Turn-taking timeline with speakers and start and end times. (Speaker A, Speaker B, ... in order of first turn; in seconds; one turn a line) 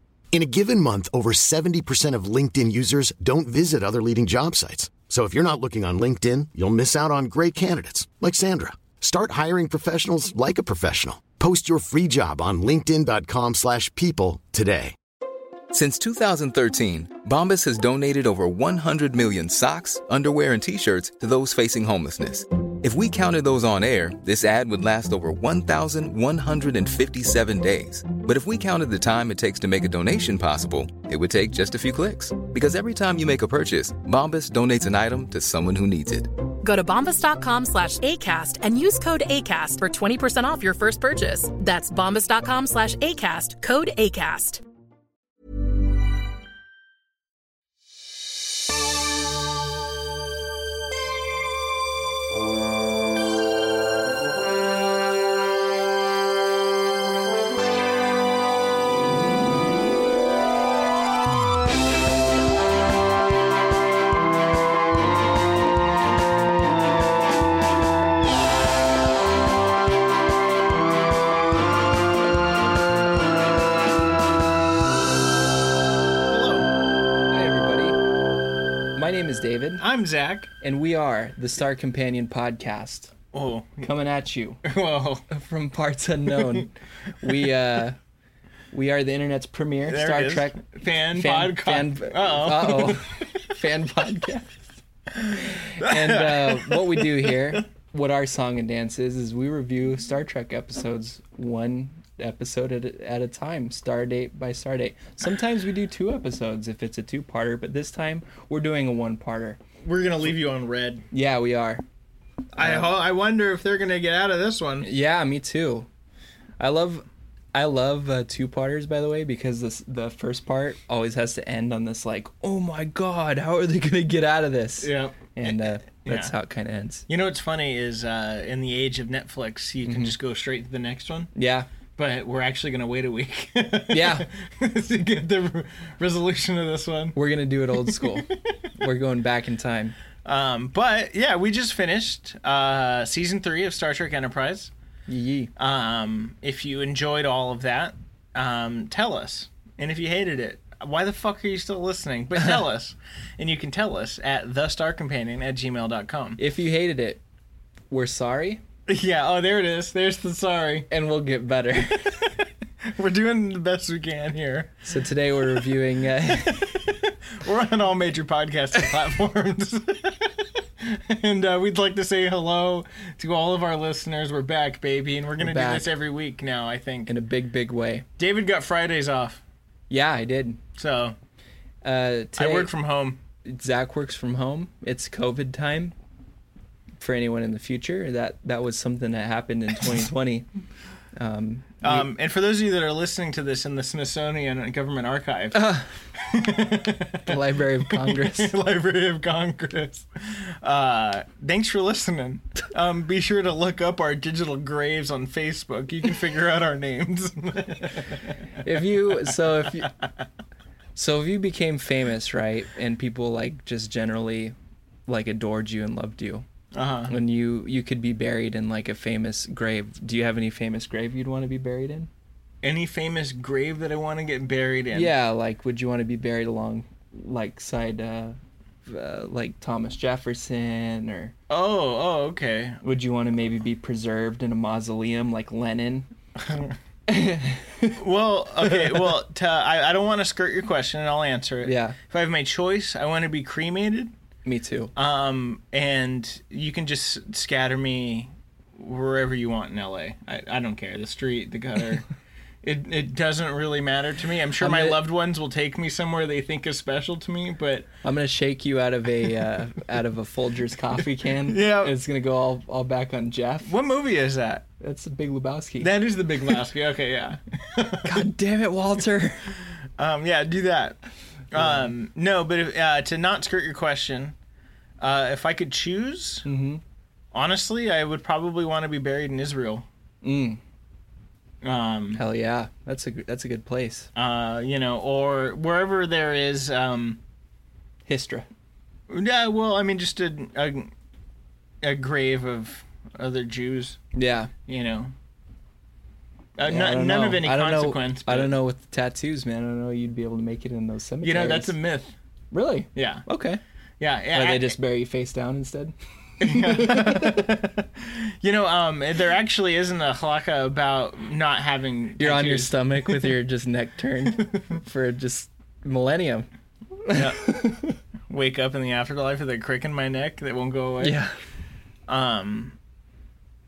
Speaker A: 0.3-14.9
Speaker B: 15.7-36.3
Speaker C: 36.6-44.6
Speaker D: 76.3-76.7
Speaker E: 77.3-78.0
Speaker E: 78.9-79.8
Speaker D: 79.8-80.5
Speaker E: 80.6-83.1
Speaker D: 83.3-83.9
Speaker E: 83.8-84.6
Speaker D: 84.6-85.2
Speaker E: 85.3-88.0
Speaker E: 88.7-90.6
Speaker D: 89.8-93.3
Speaker E: 91.1-94.6
Speaker E: 95.3-109.6
Speaker D: 95.8-97.5
Speaker D: 109.8-111.0
Speaker E: 111.1-111.8
Speaker D: 112.5-114.9
Speaker E: 112.6-112.9
Speaker E: 114.8-115.9
Speaker E: 116.6-127.1
Speaker D: 124.8-126.3
Speaker D: 127.1-131.3
Speaker E: 129.8-130.2
Speaker E: 131.3-131.7
Speaker D: 131.9-137.2
Speaker E: 133.9-134.3
Speaker E: 137.1-139.9
Speaker D: 137.7-138.3
Speaker D: 140.2-144.7
Speaker E: 145.1-145.5
Speaker D: 145.6-156.4
Speaker E: 156.4-157.2
Speaker E: 157.9-158.6
Speaker D: 158.9-160.9
Speaker E: 160.9-162.3
Speaker D: 162.8-164.8
Speaker E: 164.8-166.8
Speaker D: 166.2-177.1
Speaker E: 175.4-175.9
Speaker E: 177.1-178.0
Speaker D: 178.2-179.4
Speaker E: 179.9-180.6
Speaker D: 180.8-181.2
Speaker E: 181.8-182.7
Speaker D: 182.3-183.2
Speaker E: 183.4-185.9
Speaker E: 187.0-190.5
Speaker E: 191.2-192.1
Speaker D: 191.8-208.4
Speaker E: 195.5-195.9
Speaker E: 197.2-198.5
Speaker E: 208.6-209.9
Speaker E: 210.9-214.5
Speaker E: 215.1-216.4
Speaker D: 216.7-217.1
Speaker E: 217.1-222.1
Speaker D: 222.6-225.1
Speaker E: 224.9-231.3
Speaker D: 231.5-232.8
Speaker E: 232.8-236.1
Speaker D: 236.4-236.8
Speaker E: 237.1-238.0
Speaker D: 237.9-244.1
Speaker E: 241.6-242.0
Speaker E: 244.4-244.9
Speaker D: 244.9-252.0
Speaker D: 252.6-257.9
Speaker E: 254.6-255.0
Speaker E: 258.0-263.7
Speaker D: 261.4-261.9
Speaker D: 263.6-264.6
Speaker E: 264.8-265.9
Speaker D: 265.8-268.3
Speaker E: 268.0-269.5
Speaker D: 270.0-274.3
Speaker E: 271.5-271.9
Speaker D: 275.0-276.4
Speaker E: 276.4-276.8
Speaker D: 277.3-279.9
Speaker E: 280.2-280.6
Speaker D: 281.6-282.2
Speaker E: 282.1-284.1
Speaker D: 284.1-287.2
Speaker E: 288.1-288.4
Speaker D: 289.1-290.9
Speaker D: 291.8-294.0
Speaker E: 294.1-294.5
Speaker D: 294.7-295.1
Speaker D: 296.6-298.5
Speaker E: 296.6-301.8
Speaker D: 301.2-302.1
Speaker E: 302.5-303.6
Speaker D: 302.9-303.2
Speaker D: 304.0-304.8
Speaker E: 304.3-307.5
Speaker D: 306.4-313.4
Speaker E: 312.2-316.5
Speaker E: 317.0-317.9
Speaker D: 317.1-317.4
Speaker D: 318.3-321.2
Speaker E: 321.0-321.3
Speaker D: 322.1-322.8